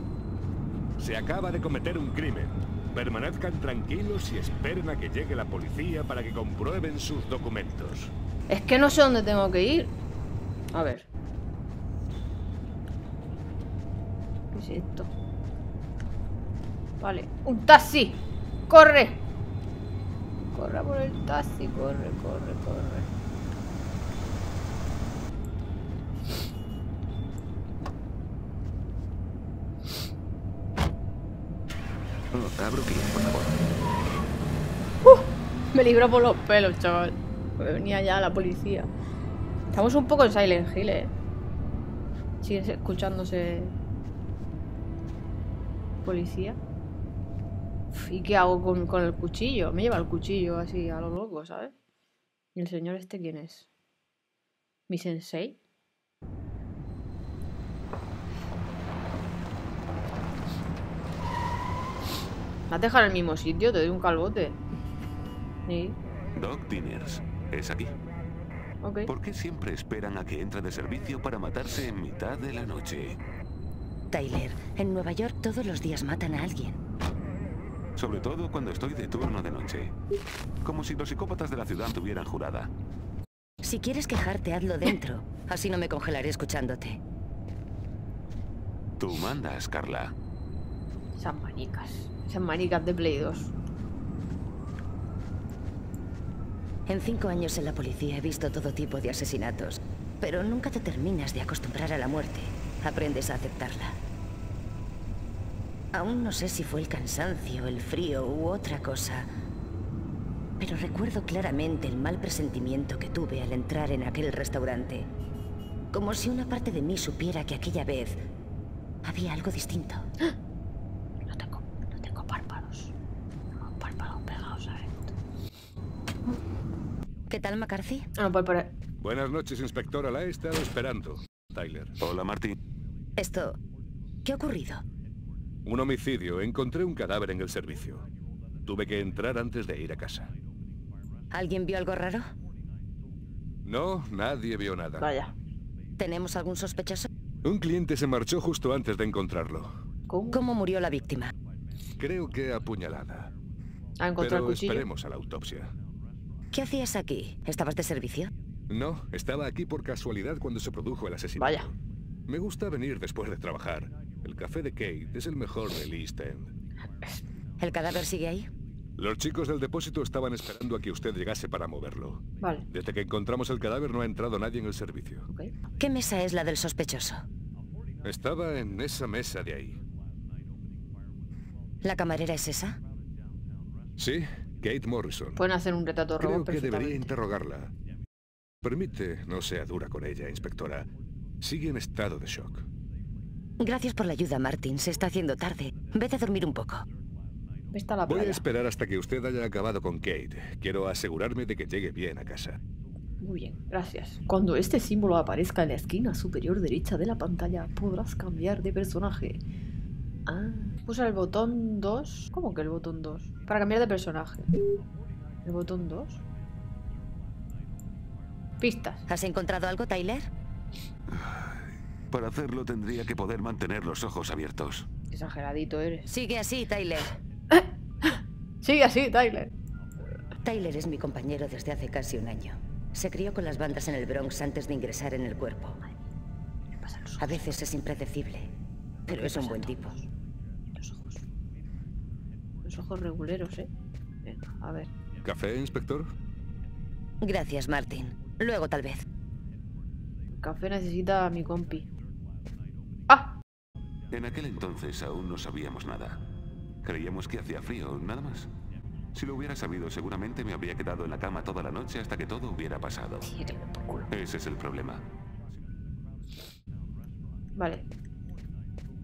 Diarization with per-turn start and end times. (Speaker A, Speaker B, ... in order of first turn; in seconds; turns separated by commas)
Speaker A: 1.0-8.1, Speaker B: 8.5-9.9, Speaker B: 10.7-11.1, Speaker B: 14.5-15.1, Speaker B: 17.0-19.2, Speaker B: 20.5-23.1, Speaker C: 32.3-33.7, Speaker B: 35.0-38.9, Speaker B: 39.7-41.1, Speaker B: 42.4-43.8, Speaker B: 46.0-46.6, Speaker B: 47.9-51.7, Speaker B: 52.5-53.7, Speaker B: 54.9-55.6, Speaker B: 62.7-64.6, Speaker B: 65.7-66.0, Speaker C: 66.3-68.0, Speaker B: 68.8-69.1, Speaker C: 69.1-73.2, Speaker D: 74.1-76.8, Speaker C: 78.0-79.9, Speaker C: 80.6-82.7, Speaker D: 83.6-87.0, Speaker C: 89.0-90.1, Speaker B: 91.2-93.5, Speaker D: 96.9-104.0, Speaker D: 105.9-109.3, Speaker D: 110.6-115.1, Speaker D: 115.9-118.3, Speaker D: 119.0-120.0, Speaker B: 121.3-122.9, Speaker B: 123.5-125.1, Speaker D: 127.3-128.1, Speaker B: 128.2-128.7, Speaker A: 129.0-132.0, Speaker C: 132.0-132.5, Speaker D: 133.2-133.6, Speaker D: 134.2-134.8, Speaker A: 135.6-138.1, Speaker A: 138.7-140.3, Speaker D: 141.3-142.3, Speaker A: 143.6-145.1, Speaker B: 145.0-145.3, Speaker D: 146.0-147.1, Speaker A: 147.4-149.8, Speaker B: 150.1-150.4, Speaker D: 150.3-151.3, Speaker A: 152.0-153.3, Speaker B: 154.0-154.8, Speaker A: 154.2-155.7, Speaker D: 156.5-158.3, Speaker A: 158.7-161.7, Speaker B: 161.4-161.7, Speaker A: 162.3-166.5, Speaker D: 167.6-168.5, Speaker A: 169.0-175.2, Speaker B: 172.4-172.7, Speaker B: 175.3-175.5, Speaker D: 175.8-177.2, Speaker A: 178.0-179.8, Speaker D: 181.8-182.8, Speaker A: 184.0-185.4, Speaker B: 185.3-187.1, Speaker A: 186.2-187.7, Speaker A: 188.6-190.9, Speaker A: 191.4-192.7, Speaker D: 193.6-196.8, Speaker B: 197.7-198.4, Speaker A: 198.1-202.6, Speaker B: 203.2-209.4, Speaker B: 210.2-214.5, Speaker B: 215.4-216.2, Speaker B: 218.6-219.1, Speaker D: 219.1-220.3, Speaker C: 221.1-224.9, Speaker B: 225.1-226.1, Speaker D: 226.1-227.2, Speaker B: 227.5-229.5, Speaker D: 230.4-235.8, Speaker B: 236.8-237.6, Speaker D: 237.2-238.5, Speaker D: 239.1-239.9, Speaker B: 239.1-240.1, Speaker B: 240.8-241.2, Speaker B: 242.6-243.7, Speaker B: 244.2-244.9, Speaker A: 245.2-246.1, Speaker D: 247.2-249.0, Speaker B: 250.3-251.9, Speaker B: 253.1-253.4, Speaker C: 254.1-256.2, Speaker C: 256.8-258.5, Speaker C: 259.1-263.3, Speaker B: 263.2-264.1, Speaker C: 264.1-265.0, Speaker B: 267.6-267.9